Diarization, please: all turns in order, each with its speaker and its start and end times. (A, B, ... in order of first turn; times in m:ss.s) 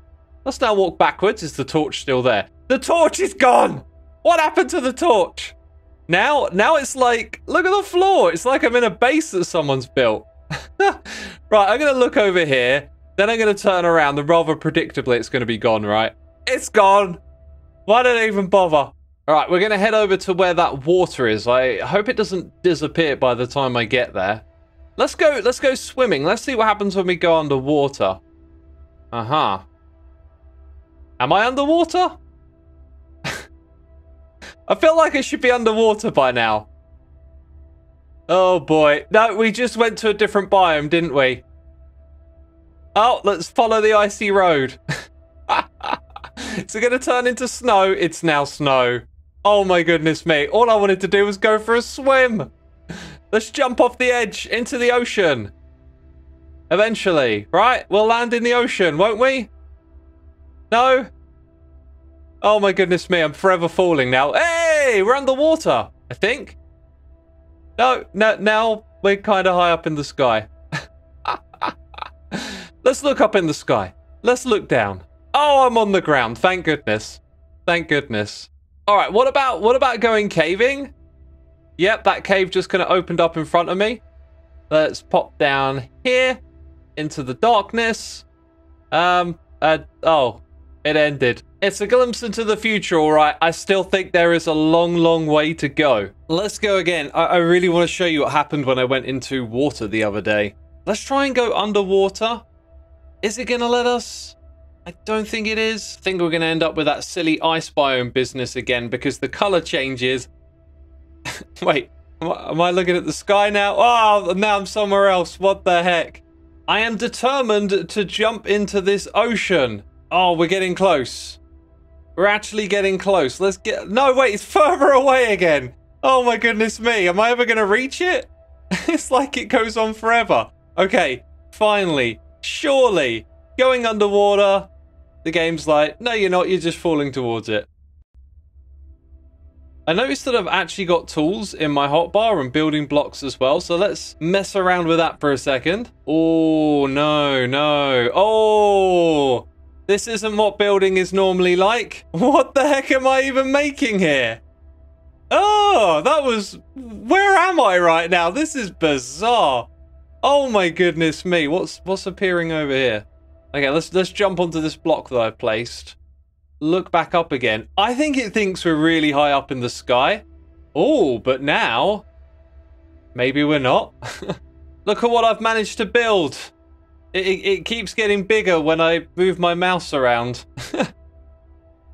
0:00.4-0:05.5 A
0:06.1-0:17.2 A
0:17.8-0:24.4 A
0:25.0-0:28.2 A
0:29.1-0:29.6 A
0:31.2-0:32.2 A
0:34.7-0:36.7 A
0:38.3-0:41.4 A
0:42.9-0:44.8 A
0:45.5-0:46.0 A
0:46.6-0:52.5 A
0:53.3-0:55.5 A
0:56.7-0:59.5 A
1:00.7-1:01.1 A
1:02.4-1:06.6 A
1:07.8-1:10.5 A
1:11.2-1:20.9 A
1:21.8-1:24.0 A
1:24.7-1:26.4 A
1:27.0-1:28.2 A
1:28.9-1:42.4 A
1:43.2-1:50.3 A
1:51.6-2:01.4 A
2:02.2-2:08.3 A
2:08.9-2:14.7 A
2:15.2-2:17.7 A
2:19.8-2:34.4 A
2:35.3-2:39.7 A
2:40.2-2:46.0 A
2:46.6-2:50.2 A
2:50.7-2:52.0 A
2:53.1-2:54.3 A
2:54.8-2:56.5 A
2:57.1-3:00.9 A